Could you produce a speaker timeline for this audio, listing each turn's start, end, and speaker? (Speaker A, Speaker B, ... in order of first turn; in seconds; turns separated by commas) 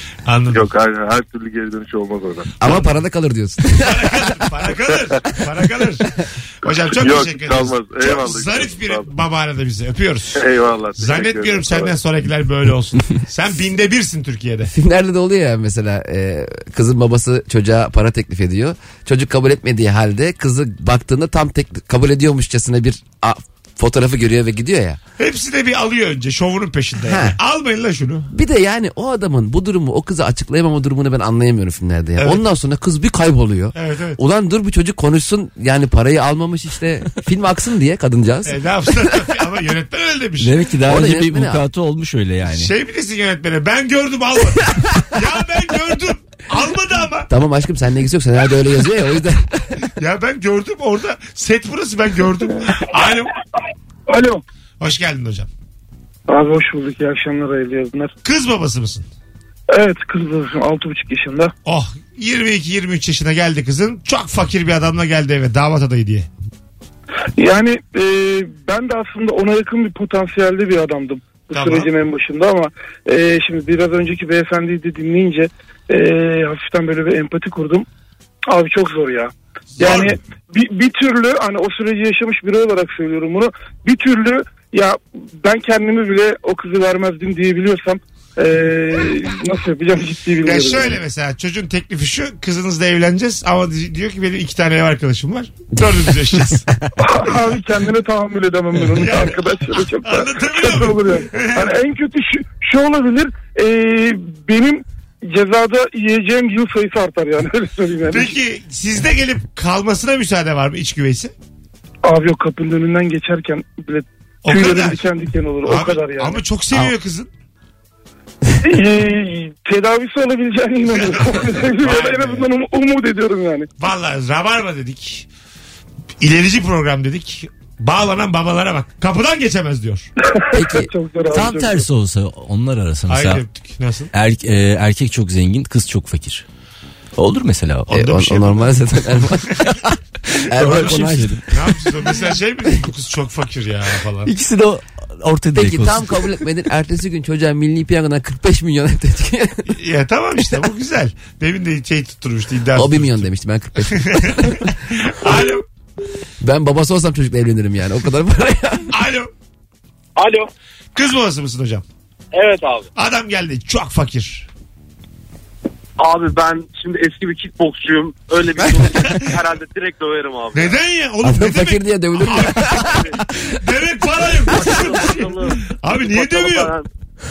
Speaker A: 0.2-0.7, Speaker B: 0.5-2.5, Speaker C: 2.6-4.3, Speaker A: 3.7-10.4, Speaker B: 6.9-9.1, Speaker B: 10.3-11.9, Speaker A: 11.0-14.7, Speaker C: 14.7-25.0, Speaker A: 25.2-28.3, Speaker C: 27.0-27.4, Speaker C: 28.3-39.1, Speaker A: 32.2-32.4, Speaker A: 33.7-34.2, Speaker A: 38.5-40.5, Speaker D: 40.4-42.7, Speaker C: 40.8-41.6, Speaker A: 42.5-47.3, Speaker C: 47.3-49.7, Speaker A: 50.0-53.3, Speaker E: 54.1-54.4, Speaker A: 54.8-55.5, Speaker E: 56.3-58.1, Speaker A: 58.2-59.1, Speaker E: 59.7-61.5, Speaker A: 61.6-66.3, Speaker E: 67.4-77.8, Speaker A: 71.5-71.9, Speaker E: 78.5-91.0, Speaker A: 79.8-80.2, Speaker A: 90.4-96.6, Speaker E: 97.0-108.3, Speaker A: 99.0-101.7, Speaker A: 108.1-111.3, Speaker E: 112.0-116.4, Speaker A: 114.4-115.0, Speaker A: 115.6-117.3, Speaker E: 118.6-123.7, Speaker A: 120.9-122.5, Speaker A: 123.8-125.2, Speaker A: 126.2-130.1, Speaker E: 130.4-131.9, Speaker C: 130.5-130.9, Speaker D: 131.3-133.4, Speaker A: 133.1-134.1, Speaker D: 134.1-136.4, Speaker D: 137.2-137.9, Speaker A: 137.9-138.7, Speaker C: 137.9-139.8, Speaker C: 140.5-141.4, Speaker D: 140.5-141.4, Speaker A: 140.6-144.3, Speaker D: 144.2-146.3, Speaker C: 145.5-149.7, Speaker A: 149.7-153.2, Speaker C: 152.7-154.7, Speaker A: 153.9-155.6, Speaker C: 156.4-158.9, Speaker A: 158.9-159.3, Speaker F: 160.2-160.4, Speaker A: 160.9-161.8, Speaker F: 162.3-162.9, Speaker A: 162.9-164.5, Speaker F: 166.0-170.8, Speaker A: 170.5-172.9, Speaker C: 171.2-173.1, Speaker F: 172.9-173.2, Speaker A: 173.5-176.7, Speaker F: 174.5-175.6, Speaker F: 176.1-176.8